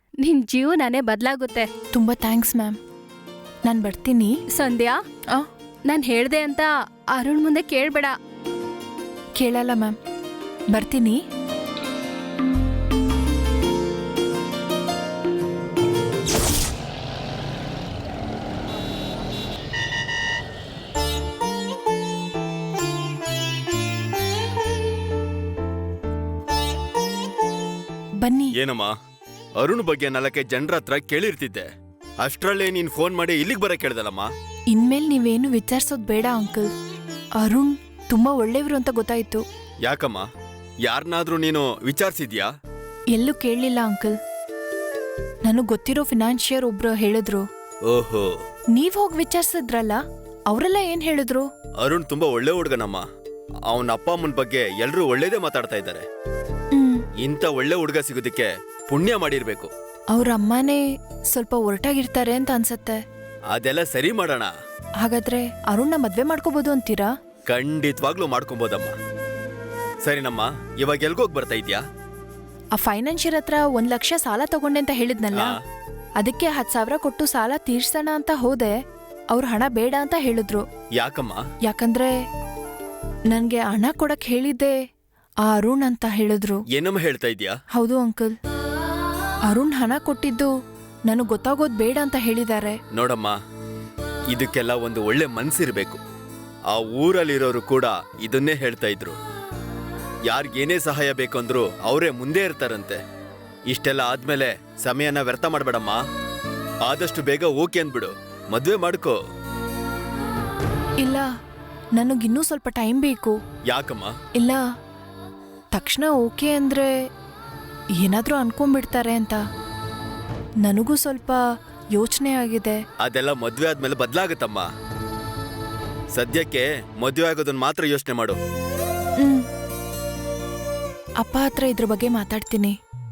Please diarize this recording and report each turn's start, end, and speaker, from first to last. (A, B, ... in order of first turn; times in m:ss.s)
0:00.2-0:01.7 A
0:01.9-0:02.8 B
0:03.6-0:04.4 B
0:04.5-0:05.0 A
0:05.9-0:08.1 A
0:09.4-0:09.9 B
0:10.7-0:11.2 B
0:28.2-0:28.5 B
0:28.5-0:28.9 C
0:29.6-0:31.7 C
0:32.2-0:34.3 C
0:34.7-0:36.7 B
0:37.4-0:39.4 B
0:39.8-0:40.2 C
0:40.8-0:42.5 C
0:43.1-0:44.2 B
0:45.4-0:47.4 B
0:47.9-0:48.3 C
0:48.8-0:51.4 B
0:51.8-0:53.0 C
0:53.7-0:56.0 C
0:56.7-0:57.0 B
0:57.2-0:59.7 C
1:00.1-1:00.8 B
1:01.3-1:03.0 B
1:03.5-1:04.5 C
1:05.0-1:07.1 B
1:07.5-1:08.9 C
1:10.0-1:11.8 C
1:12.8-1:15.6 B
1:16.2-1:18.7 B
1:19.3-1:20.6 B
1:21.0-1:21.4 C
1:21.6-1:22.1 B
1:23.3-1:24.8 B
1:25.4-1:26.6 B
1:26.7-1:27.5 C
1:27.7-1:28.3 B
1:29.5-1:30.5 B
1:31.1-1:32.8 B
1:32.9-1:33.4 C
1:34.3-1:36.0 C
1:36.7-1:39.2 C
1:40.3-1:43.0 C
1:43.7-1:46.0 C
1:46.8-1:49.2 C
1:51.0-1:51.3 B
1:52.0-1:53.4 B
1:53.7-1:54.1 C
1:54.4-1:54.6 B
1:55.7-1:56.9 B
1:58.0-1:59.4 B
2:00.6-2:01.4 B
2:02.0-2:02.8 B
2:03.0-2:04.6 C
2:06.1-2:08.4 C
2:11.2-2:12.7 B